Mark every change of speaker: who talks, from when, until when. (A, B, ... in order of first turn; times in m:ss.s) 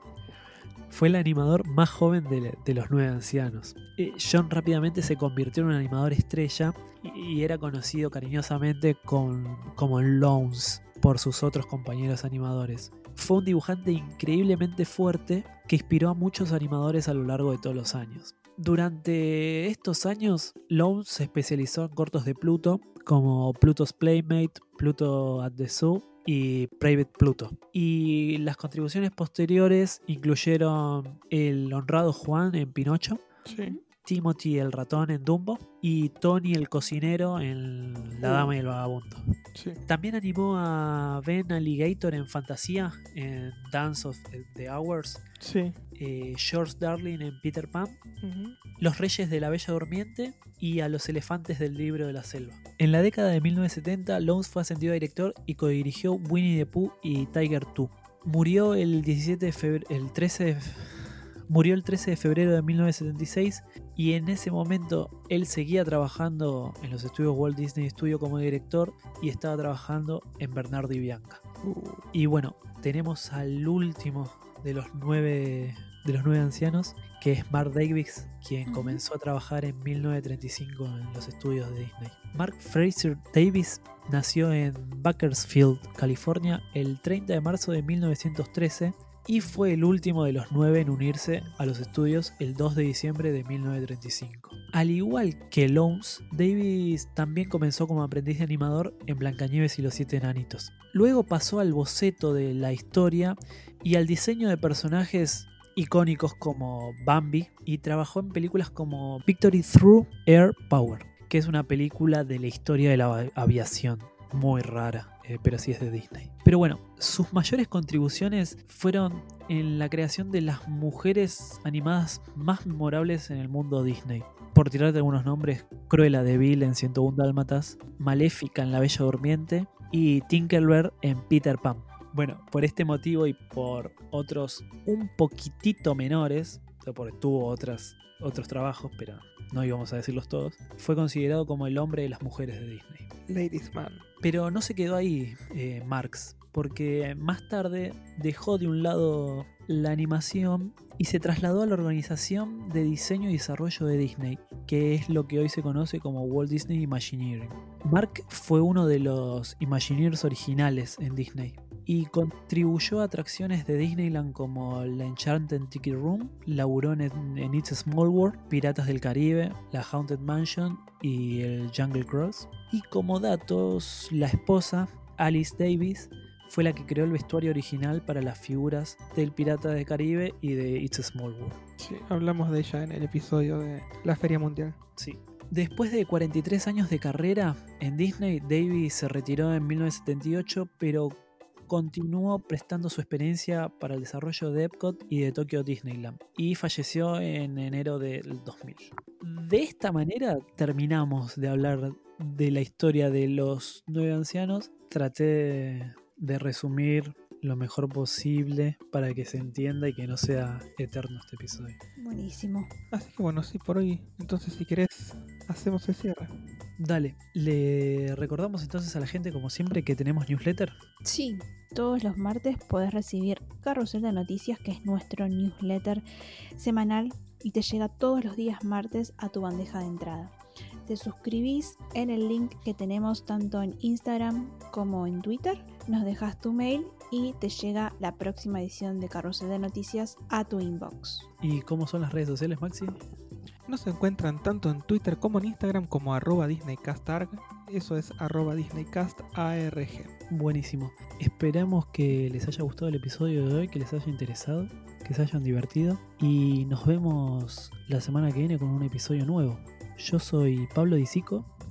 0:00.9-0:33.2 A
0:33.5-0:33.8 B
0:33.5-0:33.8 C
0:34.0-0:39.3 A
0:38.2-0:38.5 C
0:39.5-0:39.8 C
0:39.9-0:45.2 A
0:45.4-0:45.7 C
0:46.0-0:48.0 A
0:48.2-0:48.6 C
0:48.8-1:11.4 A
1:11.6-1:12.0 C
1:12.1-2:23.1 A
1:18.7-1:19.0 B
2:23.3-2:24.0 C
2:24.2-3:01.6 A
3:01.8-3:04.8 C
3:05.0-3:31.8 A
3:32.0-3:32.7 B
3:32.9-3:36.3 C
3:36.8-3:40.8 A
3:41.0-3:46.0 B
3:46.5-4:01.3 B
4:01.4-4:03.0 A
4:03.7-4:10.1 C
4:10.3-4:21.5 A